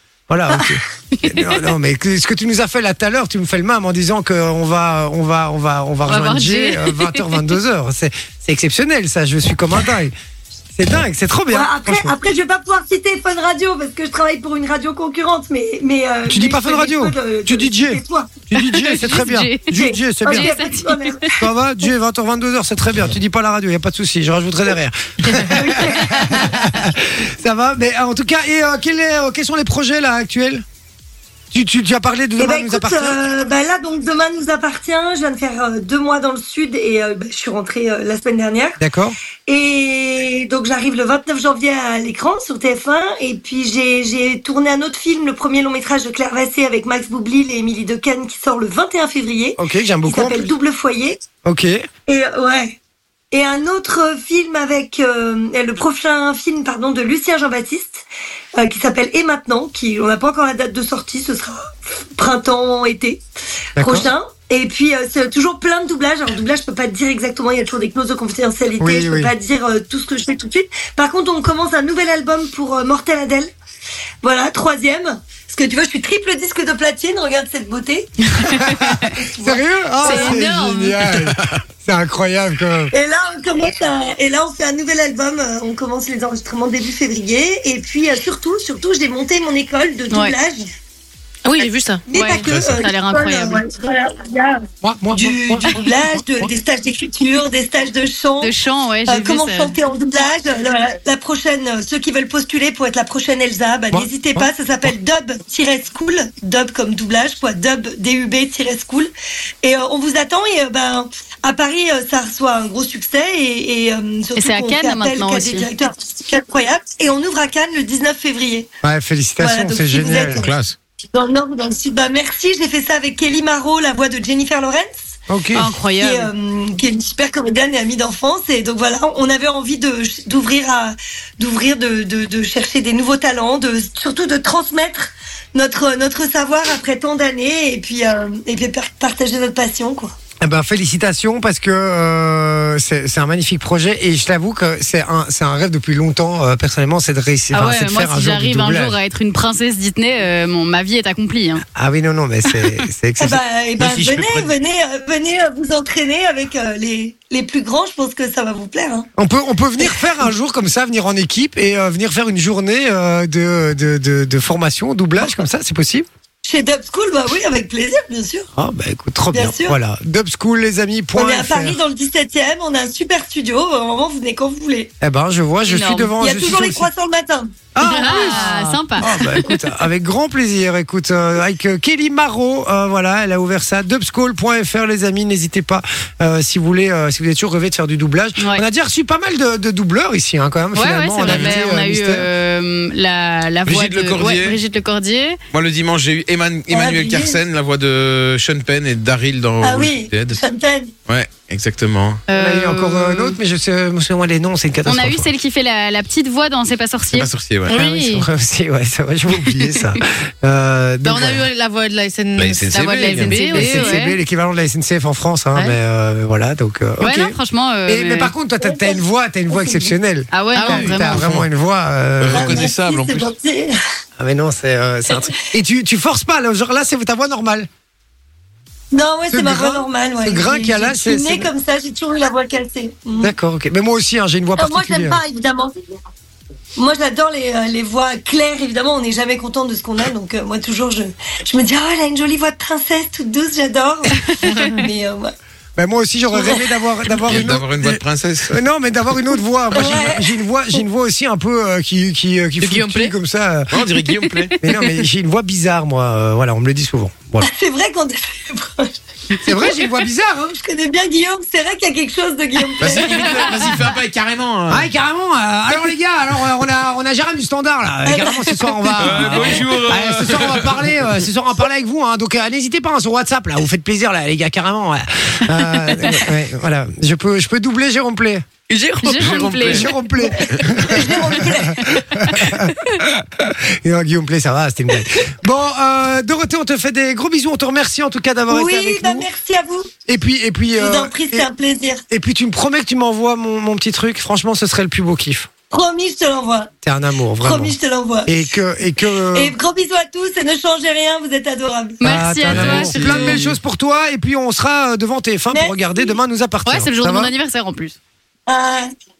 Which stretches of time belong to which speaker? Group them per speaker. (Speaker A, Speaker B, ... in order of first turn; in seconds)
Speaker A: 0.3-10.1, 10.8-12.2, 16.3-20.6, 21.4-30.6, 31.5-33.2, 38.8-39.2, 49.6-50.5, 51.4-51.9, 63.8-64.1, 68.8-69.3, 78.7-82.9, 94.8-96.5, 103.9-104.9, 118.8-120.5, 125.3-125.7, 140.4-149.0, 151.8-153.4, 159.2-166.1, 168.6-171.8, 175.0-176.9, 177.8-192.3, 202.3-205.3, 207.7-211.5, 213.5-222.6, 224.2-227.7, 229.3-231.5, 233.2-235.2, 245.8-253.8, 254.6-257.5, 259.4-260.6, 264.7-278.4, 279.6-289.3, 290.1-291.5, 292.1-295.5, 296.8-299.5, 302.0-307.3
Speaker B: 1.2-1.6, 6.0-7.5, 18.6-21.4, 25.3-25.6, 78.6-79.0, 80.0-81.0, 90.1-90.4, 92.7-93.6, 98.4-99.8, 114.4-115.7, 125.5-126.3, 147.5-151.6, 175.7-176.2, 177.8-179.6, 188.4-188.6, 190.7-195.4, 202.3-203.4, 204.8-207.3, 212.7-214.2, 217.0-218.3, 220.3-221.3, 275.6-276.3, 279.0-279.9, 302.0-303.4, 306.6-308.0
Speaker C: 11.5-18.4, 19.7-21.3, 25.5-26.5, 32.4-38.8, 39.5-51.3, 52.1-52.8, 53.3-58.0, 58.6-63.2, 63.8-73.5, 74.2-80.5, 82.9-90.7, 92.1-98.5, 99.1-109.1, 109.6-118.7, 119.4-120.6, 121.1-125.2, 126.0-140.2, 153.2-159.1, 166.4-168.5, 169.3-169.8, 171.1-174.9, 176.2-177.6, 196.7-197.4, 199.6-200.9, 218.6-219.0, 219.5-219.9, 222.3-223.7, 225.1-225.4, 228.9-233.3, 234.6-235.7, 236.8-245.3, 249.7-250.4, 257.4-259.9, 260.6-263.8, 268.1-269.5, 280.2-282.0, 288.5-289.9, 290.8-292.0, 295.7-296.7, 297.4-298.4, 299.3-302.0, 305.5-306.1, 308.5-308.9
Speaker D: 81.3-81.6, 92.4-92.8, 120.2-120.8, 153.8-154.5, 191.2-191.6, 193.7-194.6, 195.5-200.4, 201.1-202.2, 207.1-207.7, 212.4-213.3, 221.2-221.5, 222.2-223.3, 247.2-248.6, 253.7-254.7, 262.8-264.9, 268.9-271.1, 279.1-279.9, 280.6-281.3, 302.5-303.6
Speaker E: 91.5-92.5, 177.8-178.4, 207.7-208.3, 211.0-214.0, 215.5-215.8, 220.6-221.2, 244.4-244.8, 252.6-253.1, 278.7-280.1